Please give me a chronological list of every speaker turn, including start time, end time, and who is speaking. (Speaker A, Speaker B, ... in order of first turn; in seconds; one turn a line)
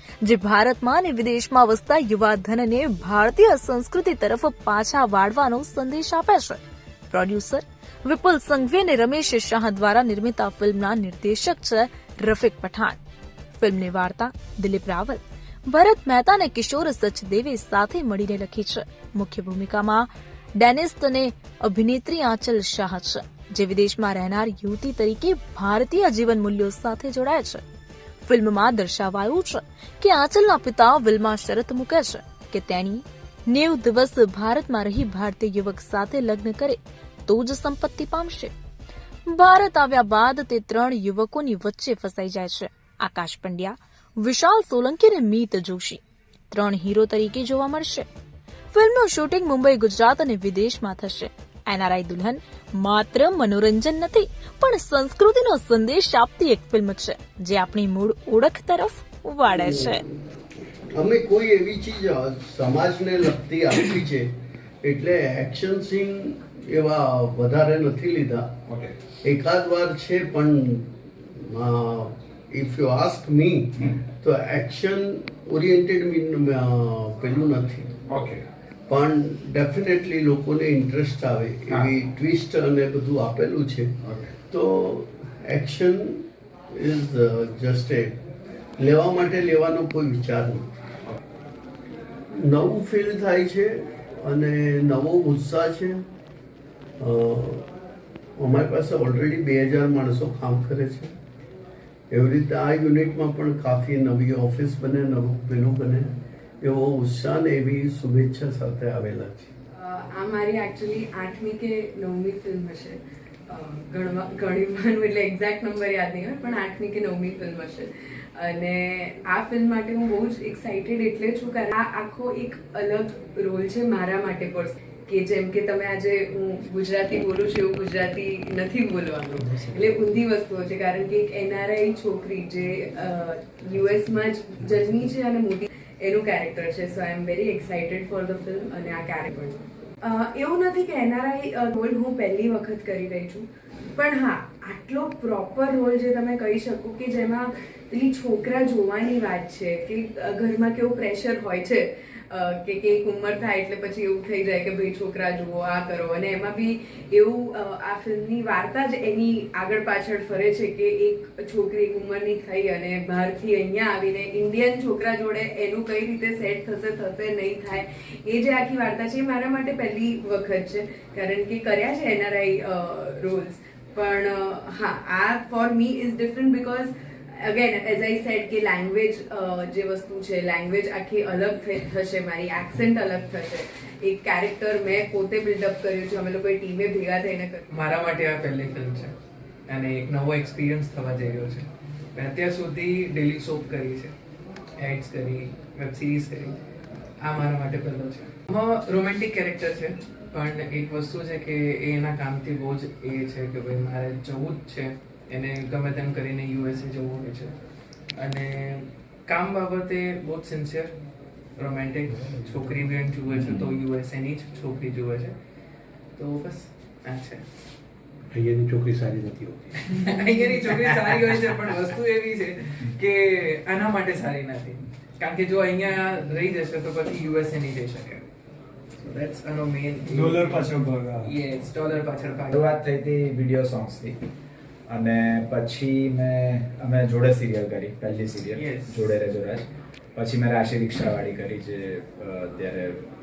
Speaker A: 0.2-13.0
Speaker A: 13.6-27.6
Speaker A: 28.2-38.5
Speaker A: 39.3-48.0
Speaker A: 48.7-60.0
Speaker B: 59.5-60.0
Speaker B: 60.9-64.3
Speaker B: 64.8-68.6
Speaker B: 69.2-78.2
Speaker B: 78.9-88.2
Speaker B: 88.8-90.7
Speaker B: 92.3-96.0
Speaker B: 97.0-97.7
Speaker B: 98.4-101.2
Speaker B: 102.1-109.5
Speaker C: 109.8-187.6
Speaker D: 187.7-189.1
Speaker D: 189.7-194.1
Speaker D: 194.8-196.6
Speaker D: 197.2-207.6
Speaker D: 208.1-210.9
Speaker D: 211.6-215.3
Speaker E: 212.2-212.7
Speaker D: 216.2-217.4
Speaker E: 218.3-219.8
Speaker D: 219.8-228.2
Speaker D: 229.0-232.8
Speaker E: 230.1-231.3
Speaker F: 232.5-234.2
Speaker F: 234.9-243.0
Speaker D: 238.5-239.2